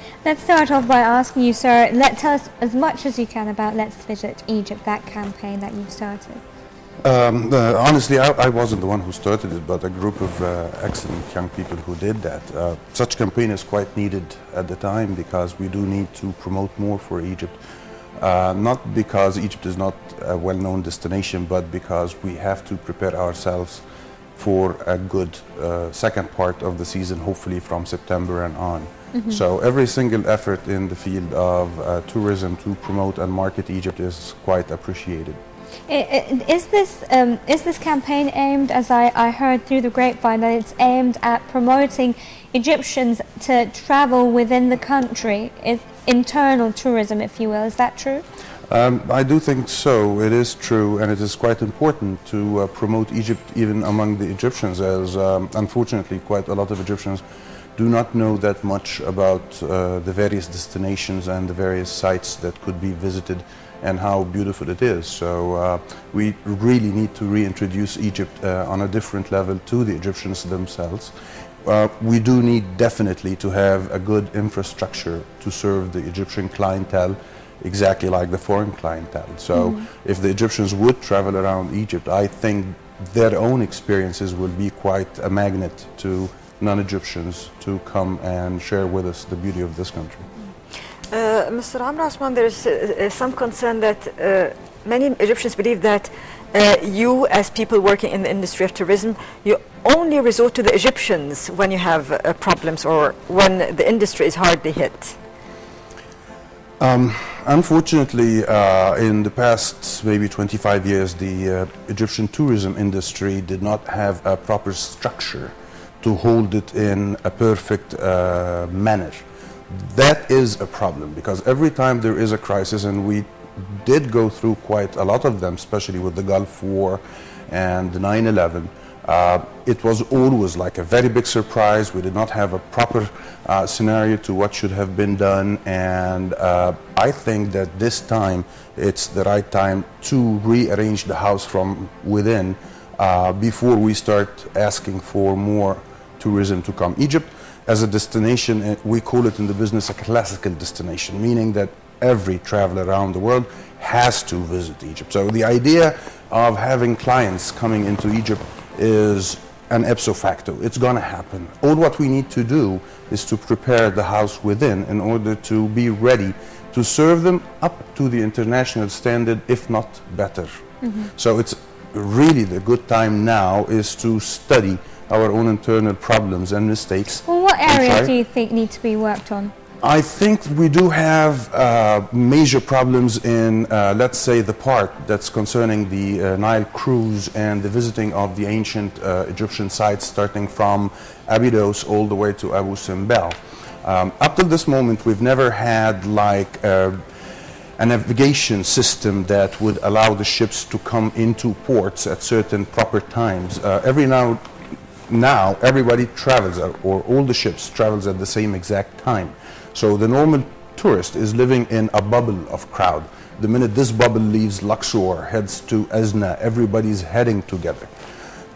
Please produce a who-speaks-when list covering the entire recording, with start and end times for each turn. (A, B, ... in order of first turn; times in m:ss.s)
0:00.2-0:06.4 A
0:07.0-0:17.6 B
0:18.2-0:23.8 B
0:24.4-0:35.4 B
0:29.1-0:29.4 A
0:35.9-0:48.2 A
0:48.7-0:57.2 B
0:57.8-1:30.2 B
1:19.5-1:19.9 A
1:31.1-1:45.2 C
1:46.8-2:50.5 B
2:50.8-2:51.1 A
2:51.2-2:58.1 B
2:57.2-2:59.5 A
2:59.8-3:17.0 B
3:17.8-3:24.4 B
3:25.1-3:37.9 B